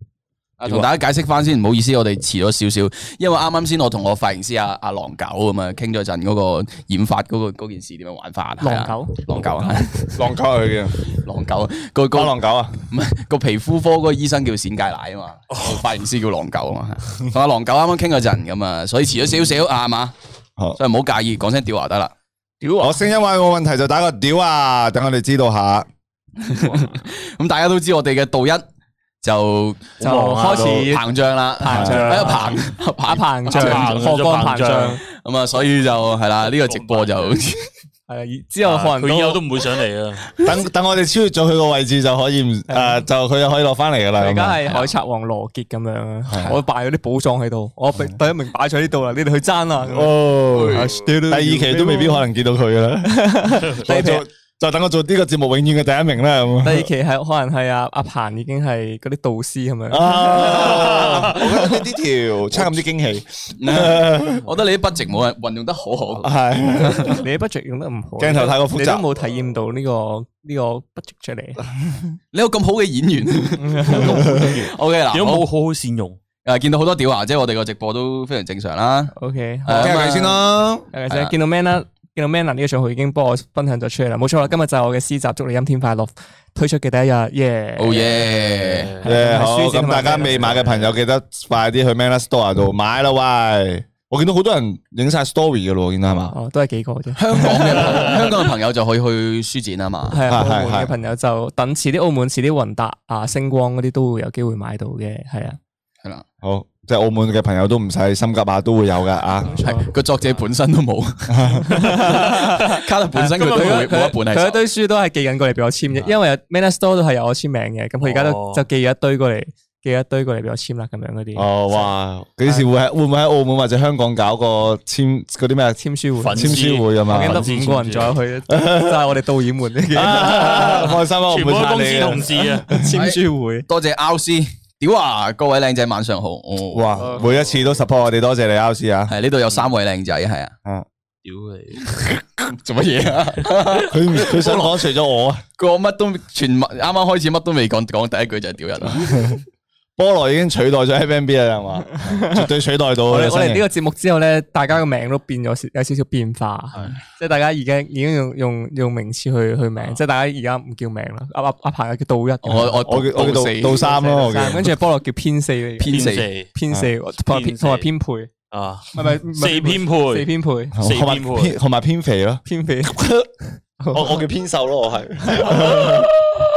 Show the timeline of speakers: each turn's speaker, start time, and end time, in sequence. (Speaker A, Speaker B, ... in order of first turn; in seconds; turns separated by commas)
Speaker A: 0.6-10.3, Speaker B: 0.7-0.9, Speaker C: 8.6-9.2, Speaker D: 10.2-11.1, Speaker A: 11.2-20.1, Speaker D: 12.1-12.8, Speaker B: 15.5-15.8, Speaker A: 20.8-22.1, Speaker C: 22.6-23.0, Speaker D: 22.8-25.9, Speaker A: 26.4-28.7, Speaker A: 29.2-29.9, Speaker B: 30.0-30.9, Speaker C: 30.0-31.1, Speaker A: 30.5-34.0, Speaker C: 31.6-35.0, Speaker D: 31.7-32.5, Speaker B: 31.9-32.5, Speaker B: 33.5-35.0, Speaker A: 35.1-37.7, Speaker B: 36.6-37.4, Speaker C: 38.1-39.4, Speaker B: 38.6-40.3, Speaker D: 40.4-44.6, Speaker C: 42.7-43.0, Speaker C: 44.2-50.2, Speaker D: 46.3-46.6, Speaker D: 49.9-56.9, Speaker A: 50.5-50.9, Speaker C: 50.7-52.2, Speaker C: 53.1-54.2, Speaker C: 56.6-60.9, Speaker D: 59.9-64.5, Speaker A: 63.6-66.3, Speaker D: 66.2-67.2, Speaker C: 67.1-71.6, Speaker D: 68.2-69.1, Speaker D: 71.8-72.1, Speaker A: 72.3-75.5, Speaker C: 73.6-74.4, Speaker B: 73.9-76.2, Speaker A: 76.5-79.1, Speaker C: 79.2-80.3, Speaker A: 79.7-80.4, Speaker D: 79.8-80.9, Speaker C: 80.9-88.2, Speaker A: 87.8-89.0, Speaker B: 88.5-89.0, Speaker C: 89.0-90.7, Speaker D: 89.0-96.3, Speaker C: 96.3-97.2, Speaker A: 97.2-100.2, Speaker C: 100.1-105.6, Speaker D: 100.3-100.9, Speaker D: 106.4-109.6, Speaker C: 109.5-109.9, Speaker A: 109.6-111.4, Speaker D: 111.3-111.7, Speaker C: 111.7-121.9, Speaker A: 112.3-114.6, Speaker B: 118.0-118.7, Speaker D: 121.3-127.5, Speaker C: 125.8-130.9, Speaker B: 126.2-128.2, Speaker D: 128.5-129.0, Speaker D: 129.9-132.9, Speaker B: 130.4-132.7, Speaker C: 131.7-133.7, Speaker A: 132.9-137.1, Speaker D: 136.7-139.1, Speaker B: 137.0-137.8, Speaker A: 139.1-140.6, Speaker B: 141.2-142.2, Speaker A: 142.5-144.8, Speaker D: 143.9-145.4, Speaker A: 145.6-149.4, Speaker D: 148.9-149.4, Speaker D: 150.0-153.7, Speaker C: 152.0-152.5, Speaker C: 153.1-162.9, Speaker A: 162.4-163.9, Speaker D: 162.8-164.8, Speaker C: 163.7-165.9, Speaker A: 165.8-166.3, Speaker B: 165.8-166.5, Speaker C: 166.5-168.3, Speaker B: 167.3-167.9, Speaker B: 168.5-171.6, Speaker C: 168.9-170.8, Speaker D: 170.8-173.3, Speaker C: 172.5-173.0, Speaker C: 173.8-174.2, Speaker D: 173.9-176.1, Speaker C: 175.3-175.8